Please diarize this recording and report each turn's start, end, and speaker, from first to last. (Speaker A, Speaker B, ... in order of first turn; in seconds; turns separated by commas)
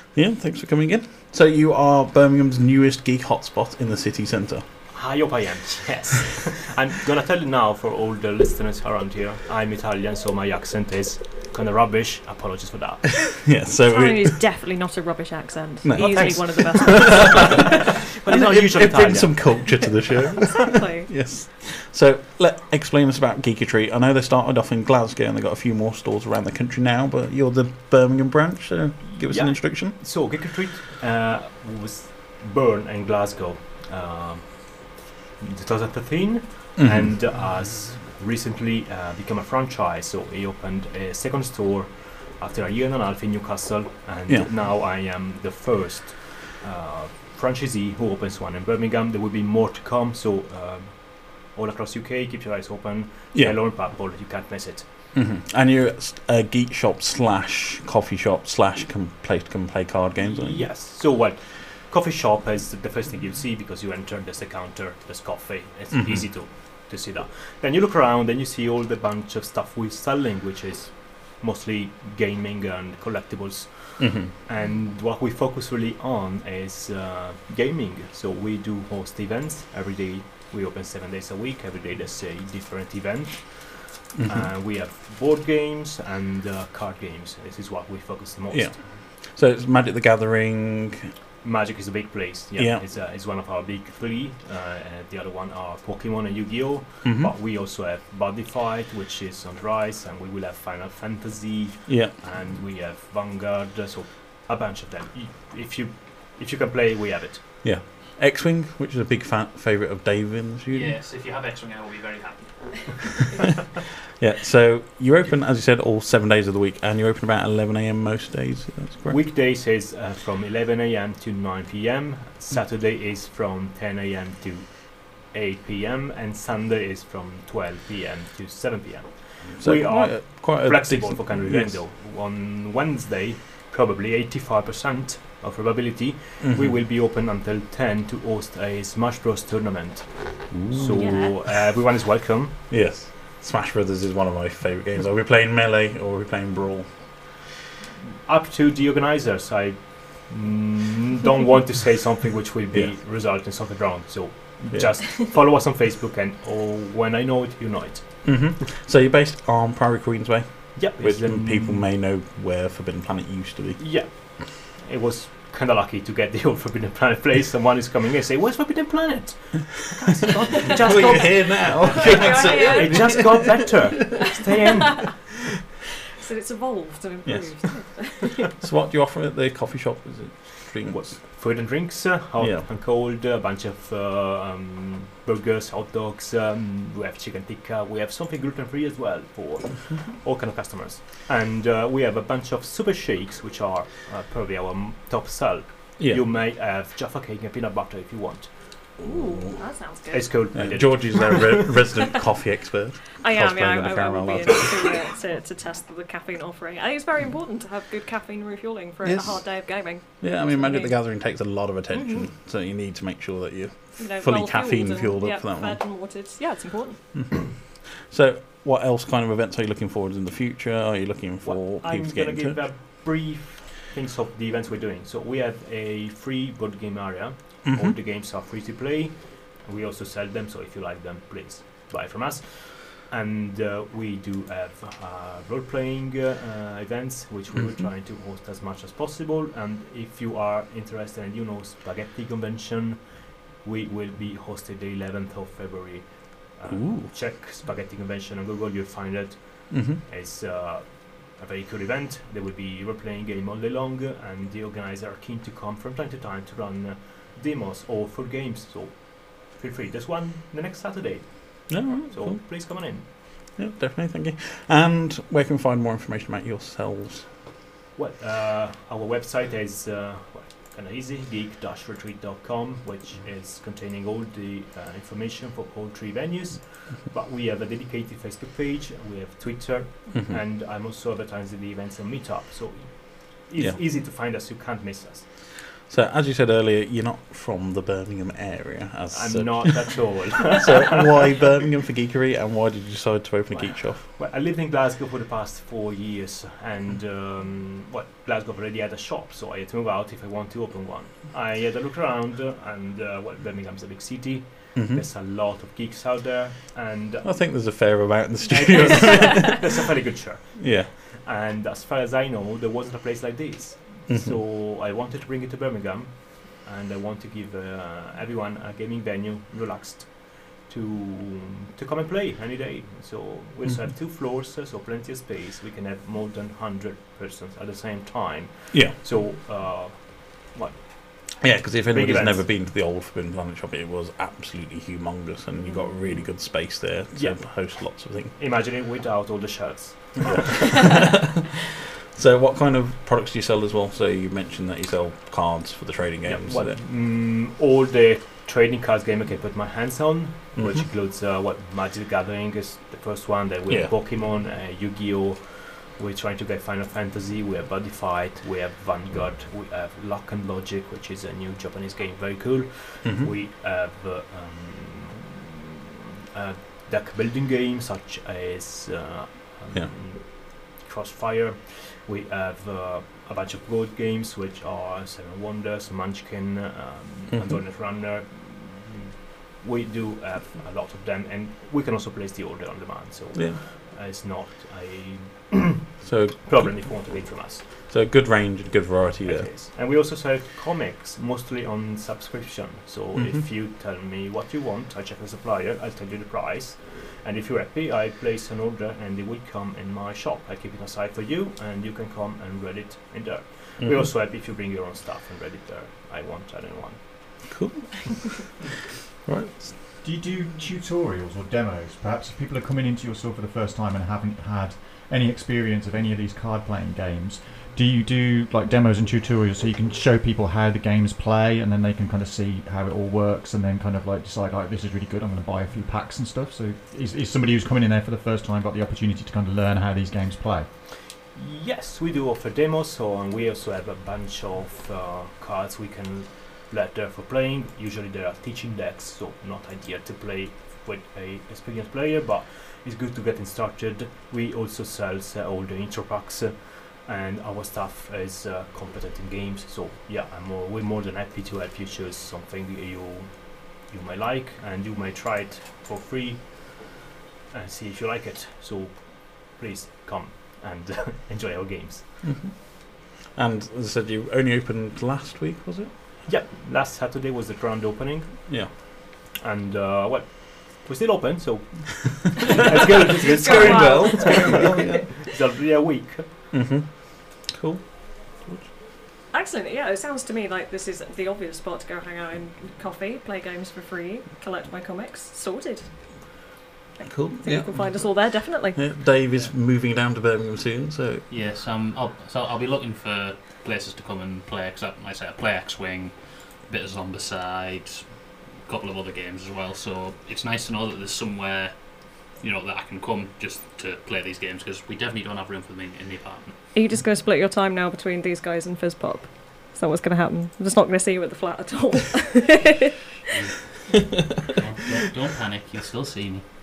Speaker A: 0.1-4.6, Speaker B: 4.9-13.3, Speaker A: 13.4-14.4, Speaker C: 13.9-17.8, Speaker A: 15.8-30.0, Speaker B: 16.0-19.9, Speaker C: 20.6-21.1, Speaker B: 29.2-54.9, Speaker A: 36.8-37.3, Speaker A: 55.1-60.7, Speaker B: 60.2-88.8, Speaker A: 65.9-66.3, Speaker A: 74.0-74.3, Speaker A: 84.1-84.5, Speaker A: 88.5-91.1, Speaker B: 91.4-107.6, Speaker A: 92.6-92.8, Speaker A: 97.0-97.3, Speaker A: 101.9-102.2, Speaker A: 107.6-111.0, Speaker D: 110.7-113.0, Speaker A: 114.2-119.3, Speaker B: 119.1-142.6, Speaker A: 129.5-131.8, Speaker A: 136.4-136.8, Speaker A: 140.5-141.0, Speaker C: 140.9-141.3, Speaker A: 142.7-146.9, Speaker B: 148.3-158.4, Speaker A: 154.7-155.2, Speaker A: 158.2-163.8, Speaker B: 160.8-161.9, Speaker B: 163.8-175.2, Speaker A: 170.5-174.4, Speaker C: 171.9-173.2, Speaker C: 176.2-178.4, Speaker A: 177.2-178.0, Speaker A: 178.6-181.2, Speaker B: 180.9-198.5, Speaker A: 182.4-182.7, Speaker A: 196.0-196.3, Speaker A: 199.0-199.6, Speaker C: 199.0-200.3, Speaker B: 200.1-201.7, Speaker A: 200.5-205.0, Speaker C: 203.2-211.0, Speaker A: 209.0-215.8, Speaker C: 211.9-212.3, Speaker C: 214.0-217.0, Speaker A: 217.1-222.7, Speaker B: 221.4-263.3, Speaker A: 227.7-228.0, Speaker A: 246.7-247.1, Speaker A: 249.7-250.0, Speaker A: 261.7-267.3, Speaker B: 268.0-285.3, Speaker A: 280.1-280.4, Speaker A: 285.9-294.1, Speaker B: 289.1-291.5, Speaker B: 293.5-307.5, Speaker A: 304.7-305.1, Speaker A: 307.2-309.9, Speaker B: 308.5-332.6, Speaker A: 310.6-310.9, Speaker A: 314.1-314.4, Speaker A: 328.7-329.0, Speaker A: 331.4-338.4, Speaker B: 337.1-341.0, Speaker A: 340.2-341.5, Speaker A: 342.1-346.8, Speaker B: 346.3-365.6, Speaker A: 350.6-350.9, Speaker A: 363.0-363.3, Speaker B: 366.3-387.8, Speaker A: 377.3-377.6, Speaker A: 383.3-383.6, Speaker A: 386.0-389.5, Speaker B: 389.3-407.4, Speaker A: 393.1-393.5, Speaker A: 403.8-404.1, Speaker A: 407.4-408.5, Speaker A: 409.3-409.7, Speaker E: 410.0-430.7, Speaker B: 431.3-457.0, Speaker B: 457.5-462.2, Speaker A: 462.2-465.9, Speaker B: 466.3-468.6, Speaker A: 468.5-468.8, Speaker B: 469.3-476.3, Speaker C: 473.2-474.8, Speaker A: 473.4-475.1, Speaker A: 476.5-476.9, Speaker A: 477.5-477.8, Speaker C: 479.3-485.9, Speaker C: 487.0-488.8, Speaker A: 487.0-488.1, Speaker A: 488.8-491.3, Speaker D: 491.3-496.1, Speaker D: 496.7-498.1, Speaker D: 498.6-501.7, Speaker D: 502.4-506.6, Speaker C: 506.8-512.9, Speaker D: 514.5-516.5